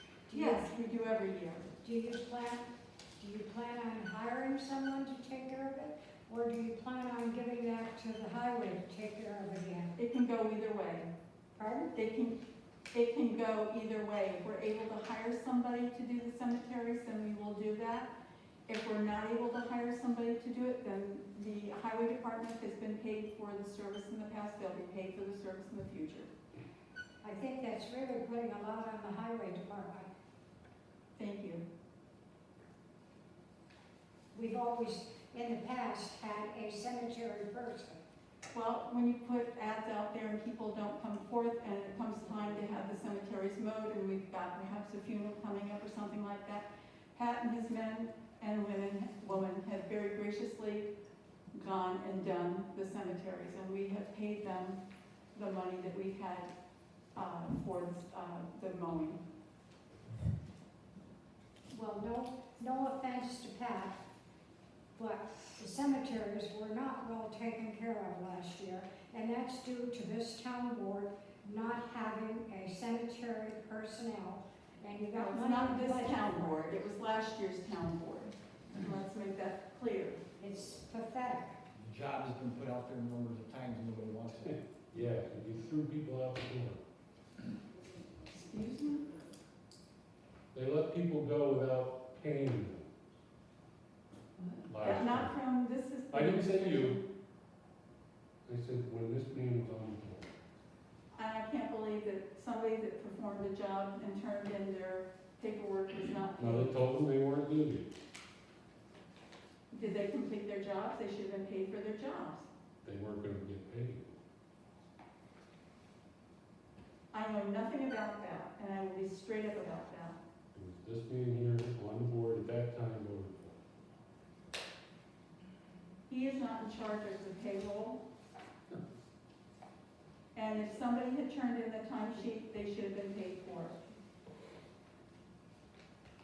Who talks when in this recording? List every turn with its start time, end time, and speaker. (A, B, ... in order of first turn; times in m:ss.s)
0:00.3-0:00.7 A
0:00.3-0:01.7 B
0:01.8-0:02.7 A
0:03.2-0:09.9 A
0:10.0-0:11.1 B
0:11.5-0:11.9 A
0:11.9-0:12.4 B
0:12.9-0:18.1 B
0:18.7-0:26.3 B
0:27.2-0:30.1 A
0:31.2-0:31.6 B
0:34.3-0:38.0 A
0:38.5-0:50.9 B
0:51.5-0:54.8 B
0:55.3-0:56.5 B
0:57.1-0:59.2 B
1:01.7-1:04.0 A
1:05.0-1:16.8 A
1:15.1-1:20.2 B
1:20.4-1:21.6 A
1:21.8-1:24.5 C
1:24.9-1:26.8 D
1:28.3-1:29.1 B
1:30.5-1:32.9 D
1:34.6-1:35.3 D
1:34.8-1:37.0 B
1:36.1-1:37.0 D
1:38.4-1:40.3 D
1:41.1-1:46.7 B
1:46.4-1:47.9 D
1:49.7-1:52.5 B
1:52.8-1:54.0 D
1:57.1-2:00.2 B
2:00.5-2:03.6 D
2:06.1-2:08.0 B
2:10.3-2:13.8 B